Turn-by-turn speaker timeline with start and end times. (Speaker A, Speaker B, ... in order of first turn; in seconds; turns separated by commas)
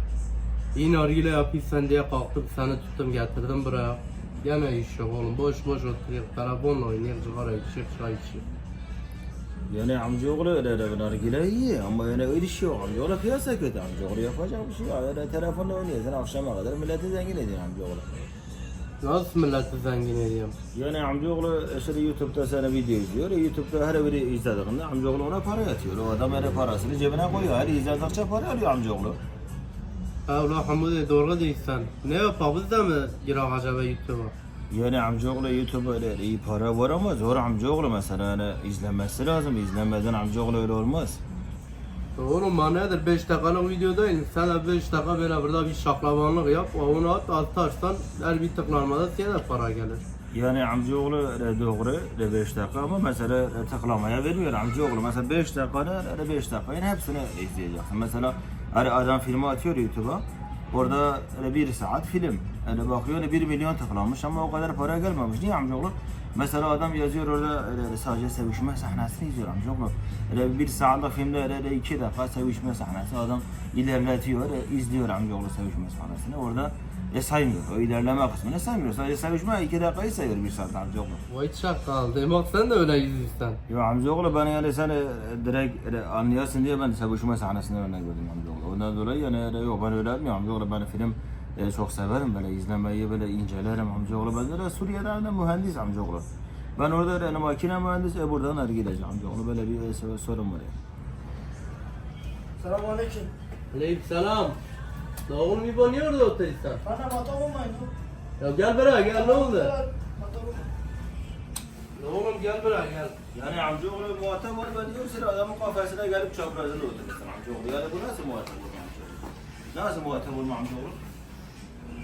Speaker A: 0.8-8.4, Speaker B: 9.7-18.1, Speaker A: 19.0-20.6, Speaker B: 20.7-29.2, Speaker A: 30.3-34.3, Speaker B: 34.7-41.2, Speaker A: 42.2-50.0, Speaker B: 50.3-81.2, Speaker A: 81.3-83.6, Speaker B: 83.7-96.2, Speaker B: 96.8-100.7, Speaker C: 102.6-103.3, Speaker A: 103.7-104.6, Speaker A: 105.3-106.8, Speaker C: 106.8-107.9, Speaker A: 108.4-109.8, Speaker C: 109.1-110.7, Speaker A: 112.0-113.2, Speaker B: 113.3-121.0